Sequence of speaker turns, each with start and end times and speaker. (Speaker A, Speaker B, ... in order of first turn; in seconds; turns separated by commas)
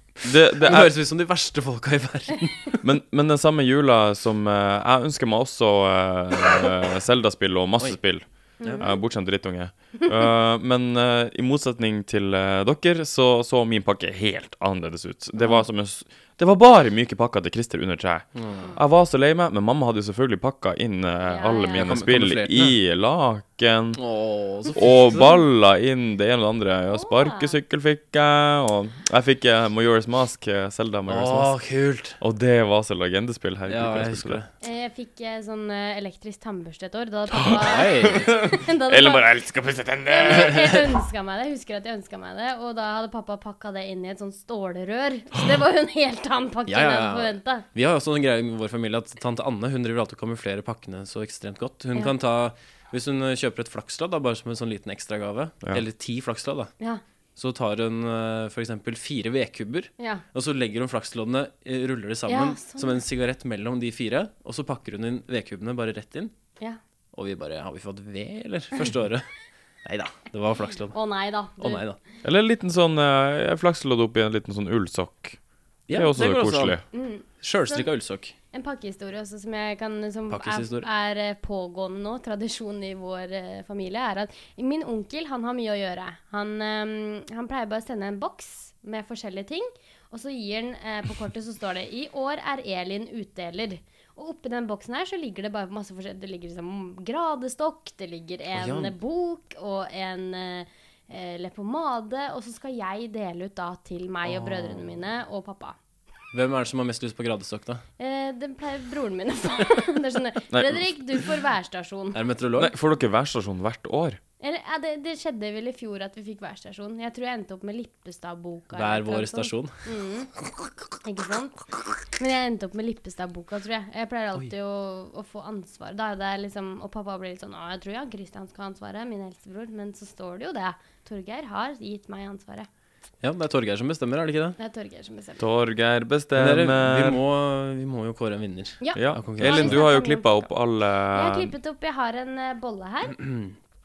Speaker A: 0.2-0.9, Speaker B: 0.6-2.8, Speaker A: 2.8-24.0, Speaker C: 8.6-9.0, Speaker C: 15.4-15.6, Speaker B: 18.4-18.8, Speaker C: 21.2-21.9, Speaker B: 21.7-22.8, Speaker B: 23.9-25.4, Speaker A: 24.7-31.5, Speaker C: 26.9-27.6, Speaker B: 31.1-32.2, Speaker A: 32.2-34.4, Speaker B: 33.7-34.5, Speaker C: 34.6-39.3, Speaker B: 37.7-38.3, Speaker A: 38.2-40.6, Speaker C: 40.0-47.6, Speaker B: 46.7-56.7, Speaker B: 57.4-66.3, Speaker C: 60.0-60.2, Speaker C: 62.3-63.0, Speaker B: 67.1-69.3, Speaker B: 69.8-71.0, Speaker C: 70.9-71.8, Speaker B: 71.6-72.0, Speaker A: 72.2-75.4, Speaker B: 75.9-76.8, Speaker A: 75.9-76.8, Speaker C: 76.9-77.9, Speaker B: 77.4-78.3, Speaker C: 78.5-105.8, Speaker B: 80.3-80.9, Speaker B: 98.5-99.0, Speaker B: 104.2-104.9, Speaker B: 106.3-107.8, Speaker C: 108.0-112.2, Speaker A: 110.5-110.9, Speaker B: 112.1-112.7, Speaker A: 112.6-114.2, Speaker C: 114.4-120.3, Speaker B: 118.7-119.7, Speaker C: 121.0-132.7, Speaker B: 133.2-134.6, Speaker C: 134.6-135.4, Speaker A: 135.4-137.2, Speaker B: 136.3-139.8, Speaker C: 138.8-140.5, Speaker A: 138.9-141.5, Speaker C: 141.1-143.2, Speaker B: 143.2-143.5